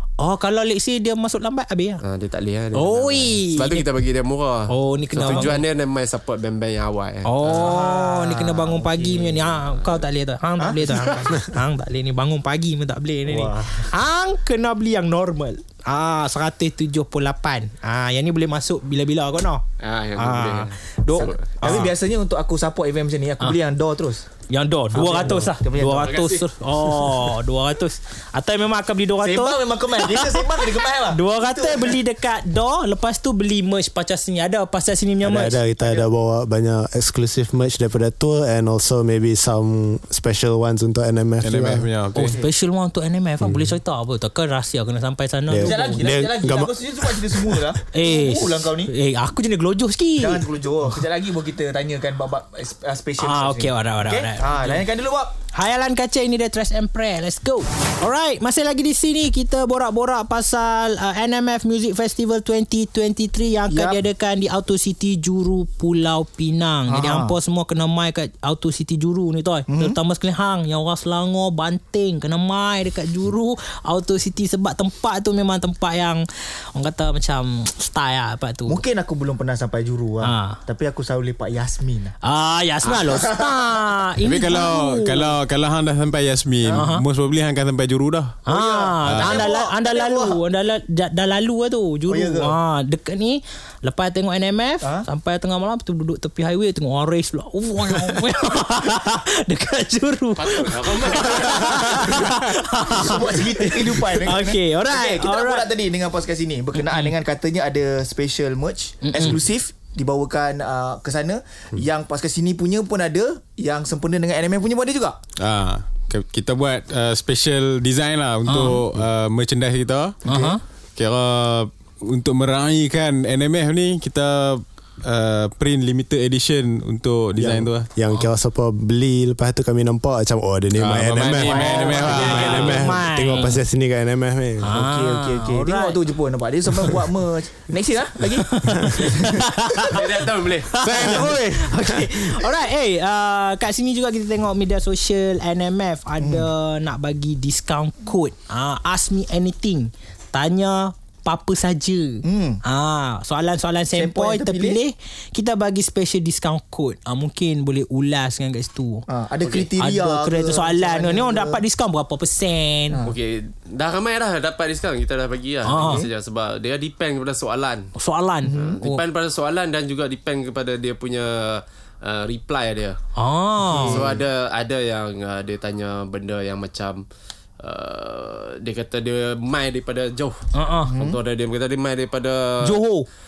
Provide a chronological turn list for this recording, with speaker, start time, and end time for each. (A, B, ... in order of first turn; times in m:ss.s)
0:00.2-0:02.0 A
0:02.0-0:07.3 B
0:02.7-0:03.8 A
0:04.7-0:05.6 A
0:05.2-0:05.5 C
0:07.2-0:19.6 A
0:07.4-0:09.5 C
0:10.6-0:11.4 C
0:13.3-0:13.7 C
0:19.8-0:21.8 B
0:20.2-0:21.9 A
0:21.0-0:24.2 C
0:24.5-0:35.6 A
0:24.9-0:26.2 C
0:25.9-0:26.4 B
0:29.2-0:32.0 C
0:35.2-0:41.9 D
0:35.8-0:36.0 C
0:41.4-0:42.4 E
0:42.1-0:46.1 A
0:42.1-0:42.5 C
0:43.4-0:43.7 D
0:45.5-0:47.6 D
0:45.6-0:48.9 C
0:47.9-0:50.4 A
0:50.2-0:55.3 C
0:53.2-0:54.8 A
0:55.5-1:18.8 A
1:03.7-1:04.0 C
1:06.9-1:07.3 C
1:09.7-1:10.0 C
1:18.7-1:22.1 C
1:20.2-1:20.6 A
1:22.2-1:25.3 A
1:22.9-1:23.6 C
1:24.2-1:28.4 E
1:26.7-1:27.0 A
1:28.4-1:45.6 A
1:28.5-1:30.4 C
1:29.0-1:29.4 E
1:32.1-1:32.6 C
1:40.4-1:42.2 B
1:41.5-1:55.2 C
1:46.7-1:47.1 A
1:49.0-1:49.4 A
1:55.4-2:00.2 E
1:58.4-1:58.8 A
2:00.2-2:00.6 C
2:00.2-2:00.6 A
2:01.0-2:07.9 E
2:07.4-2:14.7 D
2:10.7-2:12.9 E
2:11.4-2:13.6 A
2:11.6-2:12.4 C
2:14.6-2:16.0 A
2:14.7-2:20.0 C
2:18.4-2:39.1 A
2:18.7-2:18.9 D
2:19.8-2:20.7 B
2:20.8-2:22.2 E
2:26.2-2:26.5 C
2:32.2-2:32.6 C
2:33.9-2:34.8 C
2:39.1-2:41.6 C
2:39.4-2:39.7 B
2:39.8-2:43.0 A
2:43.0-2:47.9 B
2:45.6-2:46.0 A
2:45.7-2:46.0 C
2:48.0-2:49.0 A
2:48.4-2:48.8 C
2:48.5-2:53.0 B
2:53.1-2:54.0 A
2:53.6-2:54.2 C
2:53.7-2:57.0 B
2:57.6-3:00.4 B
3:00.5-3:00.9 A
3:00.9-3:01.2 C
3:00.9-3:02.8 B
3:02.6-3:03.0 A